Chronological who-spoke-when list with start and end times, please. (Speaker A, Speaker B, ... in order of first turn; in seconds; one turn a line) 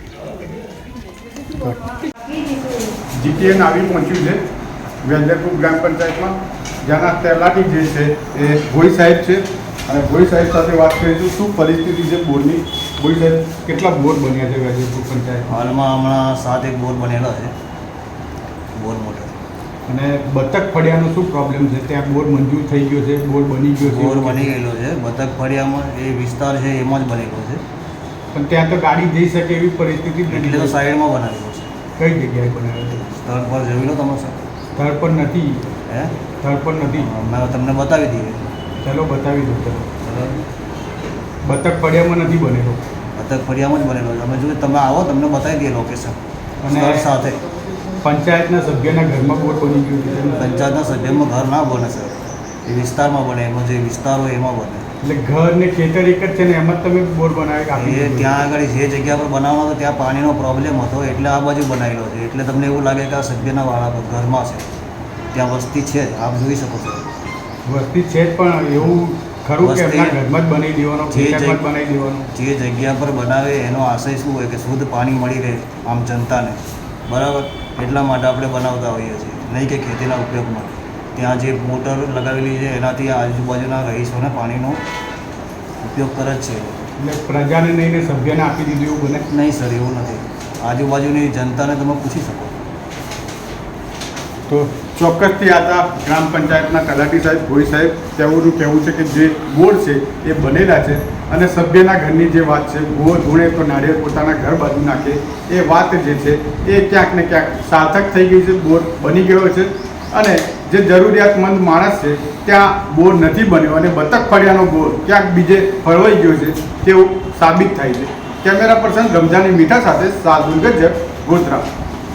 Speaker A: 3.2-4.4
Speaker A: 5.0-15.6
Speaker B: 15.5-17.5
Speaker B: 18.7-19.4
Speaker A: 19.9-24.6
Speaker B: 23.8-27.6
Speaker A: 28.3-30.7
Speaker B: 30.3-31.7
Speaker A: 32.0-33.0
Speaker B: 32.9-34.4
Speaker A: 34.8-35.6
Speaker B: 35.9-36.1
Speaker A: 36.4-37.1
Speaker B: 36.9-38.4
Speaker A: 38.8-39.9
Speaker B: 40.0-40.4
Speaker A: 41.4-42.8
Speaker B: 43.1-47.4
Speaker A: 46.6-47.1
Speaker A: 48.0-50.4
Speaker B: 50.3-54.9
Speaker A: 55.0-58.4
Speaker B: 57.7-64.7
Speaker B: 65.3-67.0
Speaker A: 67.6-72.3
Speaker B: 69.6-70.2
Speaker B: 71.1-71.6
Speaker B: 72.3-84.8
Speaker B: 85.8-86.8
Speaker A: 87.0-89.2
Speaker B: 89.3-92.6
Speaker A: 94.5-121.6